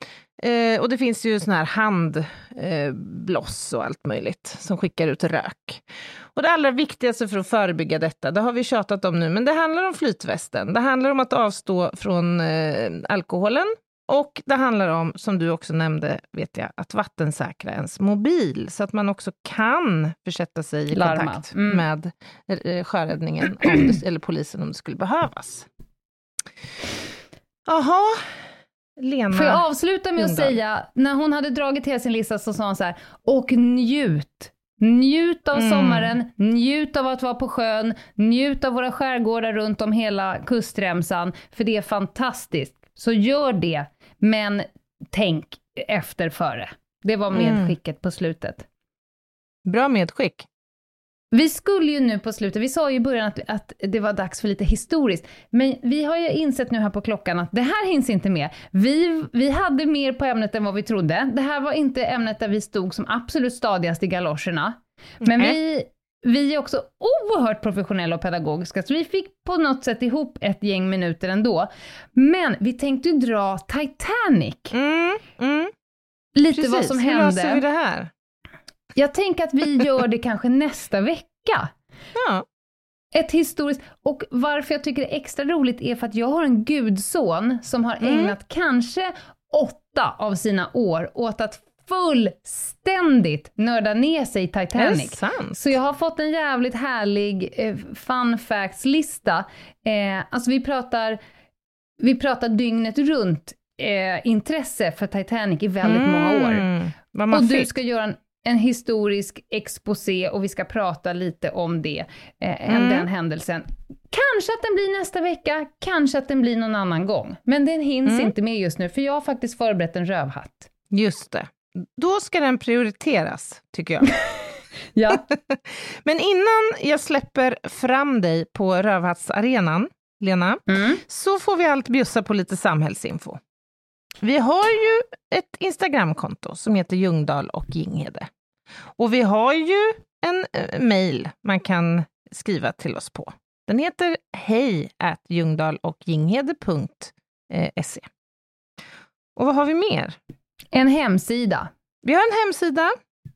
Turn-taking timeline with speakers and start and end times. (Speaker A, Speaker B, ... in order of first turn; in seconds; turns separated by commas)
Speaker A: 0.4-25.7, Speaker B: 20.9-21.8, Speaker A: 27.7-28.4, Speaker A: 29.0-29.6, Speaker B: 29.3-48.6, Speaker A: 30.1-30.5, Speaker A: 35.5-36.1, Speaker A: 47.3-47.7, Speaker A: 49.6-50.5, Speaker B: 51.3-74.7, Speaker A: 65.2-65.5, Speaker A: 74.7-75.7, Speaker B: 76.3-77.6, Speaker A: 76.5-78.1, Speaker B: 79.0-81.7, Speaker A: 82.1-82.4, Speaker B: 83.1-101.2, Speaker A: 88.0-88.3, Speaker A: 94.8-95.6, Speaker B: 102.0-106.7, Speaker A: 105.8-107.7, Speaker B: 107.3-120.7, Speaker A: 112.7-113.1, Speaker A: 118.0-118.3, Speaker A: 120.9-124.1, Speaker B: 124.9-125.2, Speaker A: 125.1-133.4, Speaker B: 130.7-131.0, Speaker A: 134.2-138.3, Speaker A: 139.0-148.1, Speaker A: 149.3-150.2, Speaker B: 150.7-151.7, Speaker A: 152.0-152.9